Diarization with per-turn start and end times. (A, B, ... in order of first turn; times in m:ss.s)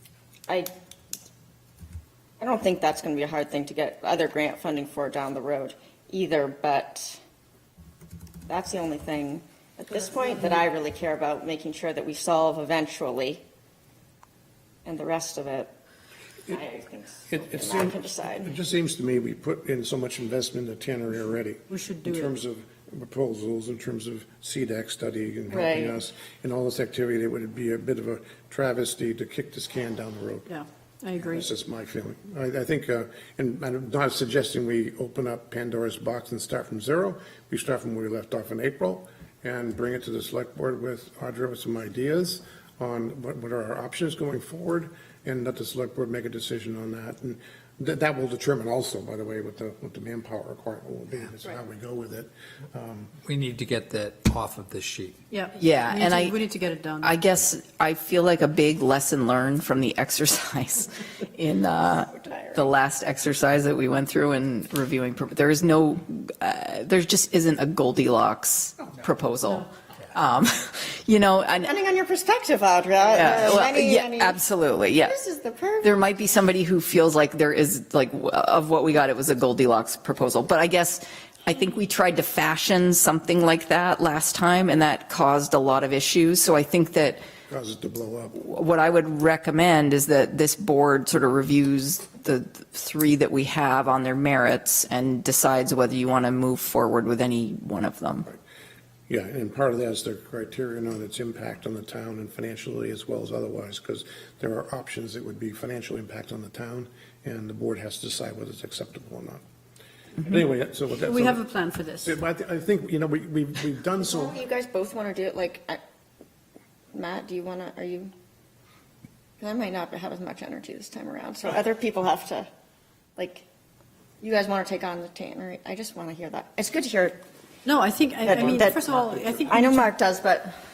0:02.4-0:07.2 A
0:08.5-0:13.4 A
0:14.8-0:15.7 A
0:16.5-0:18.5 A
0:17.3-0:30.5 B
0:21.7-0:22.4 C
0:25.5-0:26.0 A
0:30.5-0:31.5 C
0:31.2-0:53.1 B
0:53.2-0:55.2 D
0:55.3-0:57.2 C
0:55.6-0:56.4 E
0:57.0-1:11.7 E
1:02.1-1:02.7 A
1:11.6-1:14.4 A
1:13.0-1:15.2 E
1:15.0-1:16.1 A
1:15.8-1:27.2 E
1:27.5-1:28.4 B
1:28.4-1:38.3 E
1:39.1-1:49.4 B
1:50.2-1:51.4 B
1:51.0-1:52.2 C
1:52.0-1:54.4 B
1:54.0-1:55.8 A
1:56.9-1:58.1 A
1:59.4-2:02.5 A
2:03.2-2:03.5 A
2:04.2-2:07.2 A
2:07.6-2:09.9 C
2:08.2-2:08.8 A
2:08.4-2:09.3 B
2:09.4-2:10.5 A